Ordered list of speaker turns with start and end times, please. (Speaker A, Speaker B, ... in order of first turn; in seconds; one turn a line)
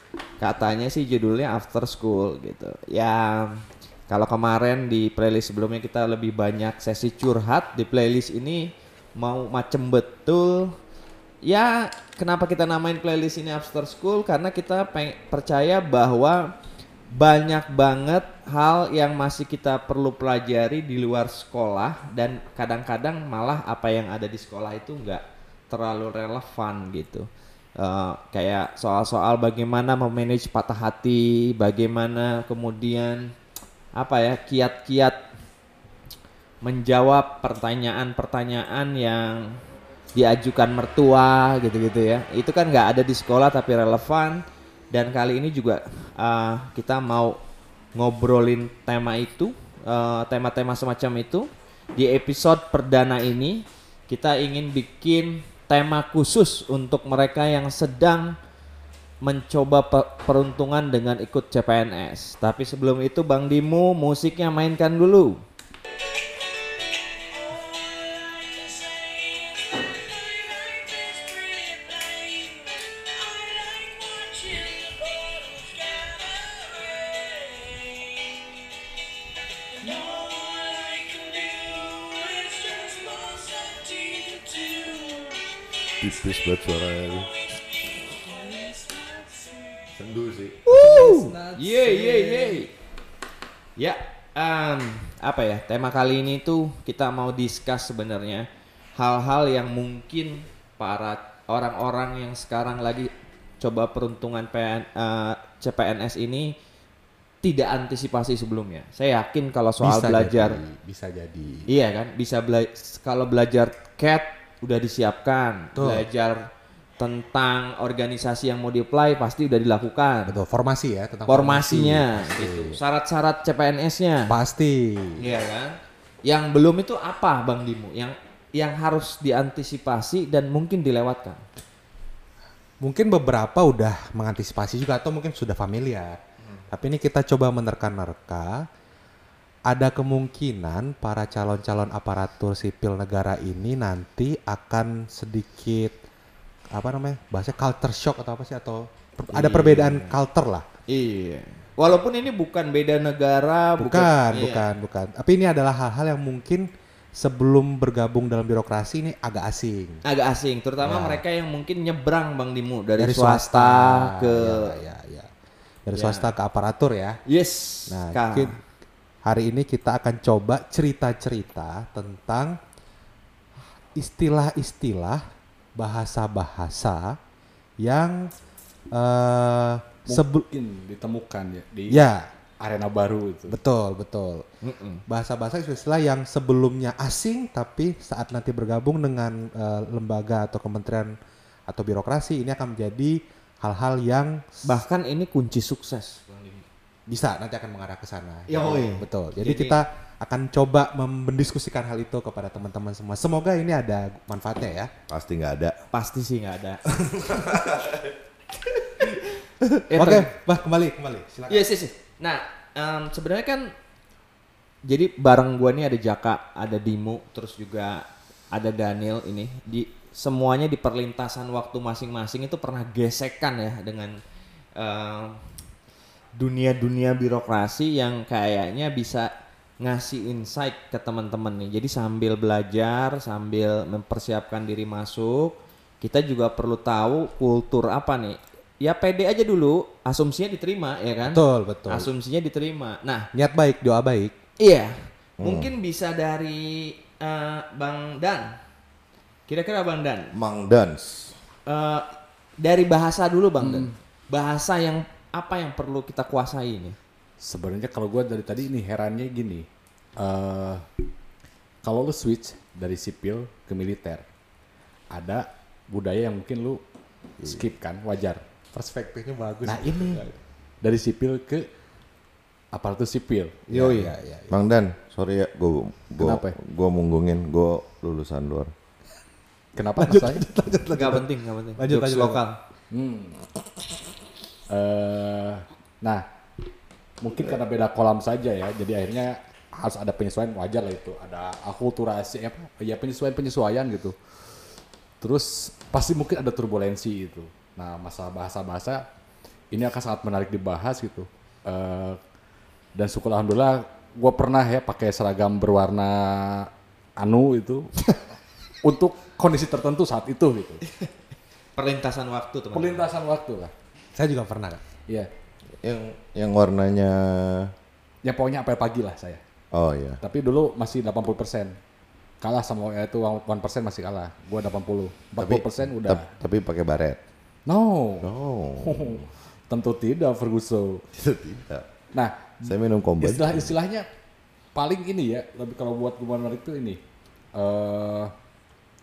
Speaker A: 0.4-10.8
Speaker A: 11.4-16.5
Speaker A: 17.1-27.3
Speaker A: 27.8-33.3
Speaker A: 34.0-35.2
Speaker A: 36.6-39.6
Speaker A: 40.1-47.4
Speaker A: 48.0-58.4
Speaker A: 59.2-65.4
Speaker B: 67.4-69.1
Speaker B: 70.1-77.9
Speaker B: 79.8-85.5
Speaker C: 86.0-87.3
Speaker B: 88.0-90.0
Speaker C: 90.0-90.6
Speaker A: 90.7-92.7
Speaker B: 90.7-92.7
Speaker A: 93.8-106.5
Speaker A: 107.4-110.6
Speaker D: 109.8-111.7
Speaker A: 111.7-116.5
Speaker D: 115.8-116.0
Speaker A: 117.0-120.3
Speaker D: 120.3-122.8
Speaker A: 121.3-124.3
Speaker D: 124.3-125.2
Speaker A: 125.2-131.4
Speaker D: 132.8-136.2
Speaker D: 136.7-138.7
Speaker D: 139.7-146.0
Speaker D: 146.7-150.7
Speaker A: 149.3-150.1
Speaker A: 150.9-154.7
Speaker D: 153.8-160.0
Speaker A: 160.0-164.8
Speaker D: 160.8-161.2
Speaker D: 163.0-165.3
Speaker D: 165.9-167.2
Speaker A: 165.9-166.3
Speaker A: 167.3-168.5
Speaker D: 167.9-168.6
Speaker D: 169.2-172.6
Speaker D: 173.9-177.2
Speaker D: 177.8-178.3
Speaker D: 178.9-180.4
Speaker B: 180.1-182.1
Speaker D: 181.9-182.3
Speaker B: 182.6-183.6
Speaker D: 183.5-184.5
Speaker A: 184.6-185.0
Speaker D: 185.1-191.2
Speaker D: 191.7-194.5
Speaker A: 194.6-196.7
Speaker D: 197.1-204.9
Speaker A: 198.5-199.8
Speaker C: 205.1-205.8
Speaker A: 205.9-206.8
Speaker D: 206.9-207.9
Speaker A: 209.7-210.3
Speaker D: 209.9-211.7
Speaker A: 211.5-213.7
Speaker A: 214.9-224.2
Speaker A: 224.8-225.4
Speaker A: 226.3-243.3
Speaker D: 241.2-242.1
Speaker D: 243.3-244.3
Speaker A: 244.6-248.6
Speaker C: 245.4-245.7
Speaker A: 249.5-250.3
Speaker C: 250.3-251.3
Speaker A: 251.7-252.1
Speaker A: 252.6-257.0
Speaker B: 253.6-253.9
Speaker B: 257.4-259.7
Speaker B: 260.2-260.9
Speaker B: 261.8-264.2
Speaker B: 265.1-266.8
Speaker B: 267.4-268.4
Speaker D: 268.7-270.4
Speaker B: 269.6-270.2
Speaker B: 270.8-271.7
Speaker B: 272.7-273.6
Speaker A: 273.7-274.1
Speaker D: 273.7-274.6
Speaker C: 274.5-278.7
Speaker B: 276.2-276.6
Speaker B: 279.8-280.5
Speaker D: 280.0-282.4
Speaker A: 280.9-282.6
Speaker B: 282.9-283.4
Speaker B: 284.7-286.2
Speaker B: 287.2-294.2
Speaker B: 295.2-299.1
Speaker B: 299.7-302.2
Speaker B: 302.9-308.0
Speaker B: 308.8-310.8
Speaker A: 311.8-313.1
Speaker B: 312.7-313.7
Speaker D: 314.1-314.8
Speaker C: 315.8-317.7
Speaker B: 318.2-319.4
Speaker C: 319.7-320.2
Speaker B: 320.2-321.8
Speaker B: 322.4-326.3
Speaker C: 325.4-327.2
Speaker B: 327.7-328.3
Speaker C: 328.2-329.3
Speaker B: 328.8-331.1
Speaker C: 331.1-331.9
Speaker B: 332.1-334.1
Speaker C: 332.6-333.7
Speaker B: 334.8-337.0
Speaker B: 337.6-338.3